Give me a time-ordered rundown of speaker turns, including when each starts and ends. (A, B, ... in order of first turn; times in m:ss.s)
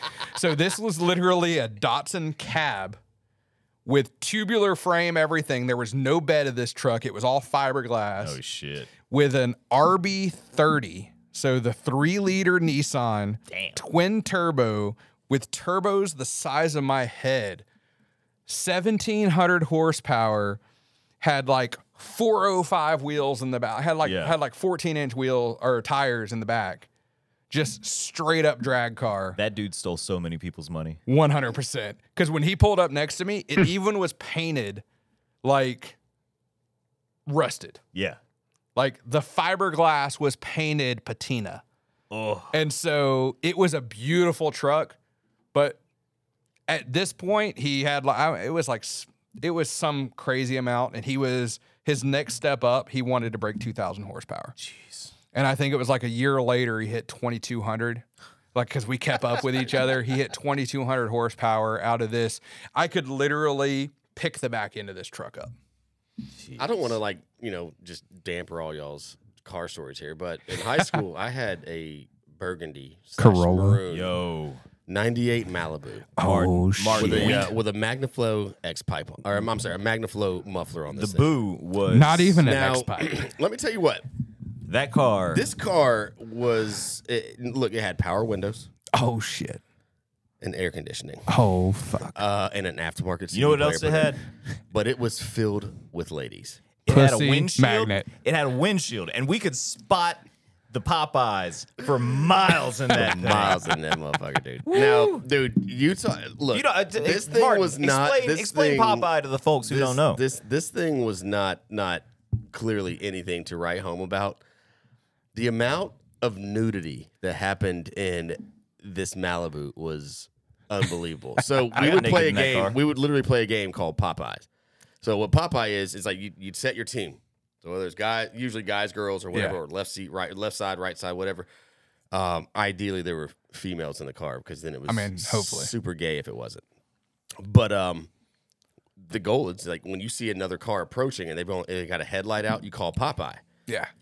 0:00.3-0:03.0 A
0:03.9-0:08.4 A
0:08.2-0:08.9 B
0:09.1-0:17.6 A
0:13.5-0:13.8 B
0:18.5-0:20.6 A
0:21.2-0:26.9 A
0:24.0-0:24.4 B
0:27.5-0:29.4 A
0:29.4-0:31.0 B
0:31.1-0:34.8 A
0:35.4-0:36.0 A
0:37.3-0:37.8 A
0:38.8-0:41.6 A
0:42.1-0:42.5 B
0:42.5-0:45.0 A
0:45.5-0:45.8 A
0:46.7-0:54.6 A
0:54.6-0:55.1 B
0:55.3-1:05.5 A
1:06.4-1:06.7 B
1:06.6-1:14.1 C
1:13.2-1:13.8 A
1:13.9-1:14.6 B
1:14.9-1:16.1 C
1:16.2-1:17.5 A
1:16.2-1:17.5 B
1:17.0-1:21.3 C
1:20.9-1:22.4 B
1:21.9-1:23.2 A
1:22.4-1:24.0 C
1:24.6-1:25.4 B
1:25.3-1:28.7 C
1:28.9-1:29.6 A
1:30.4-1:31.3 C
1:31.3-1:32.2 A
1:32.0-1:34.2 C
1:33.3-1:34.2 B
1:34.7-1:36.6 C
1:36.9-1:43.7 B
1:36.9-1:38.1 A
1:42.9-1:49.1 C
1:44.7-1:45.2 B
1:46.5-1:50.2 B
1:49.7-1:54.4 C
1:55.3-2:04.5 C
2:01.7-2:02.8 B
2:05.0-2:11.5 C
2:09.3-2:09.6 A
2:12.1-2:16.6 C
2:14.9-2:15.7 A
2:17.4-2:18.1 C
2:19.0-2:23.4 C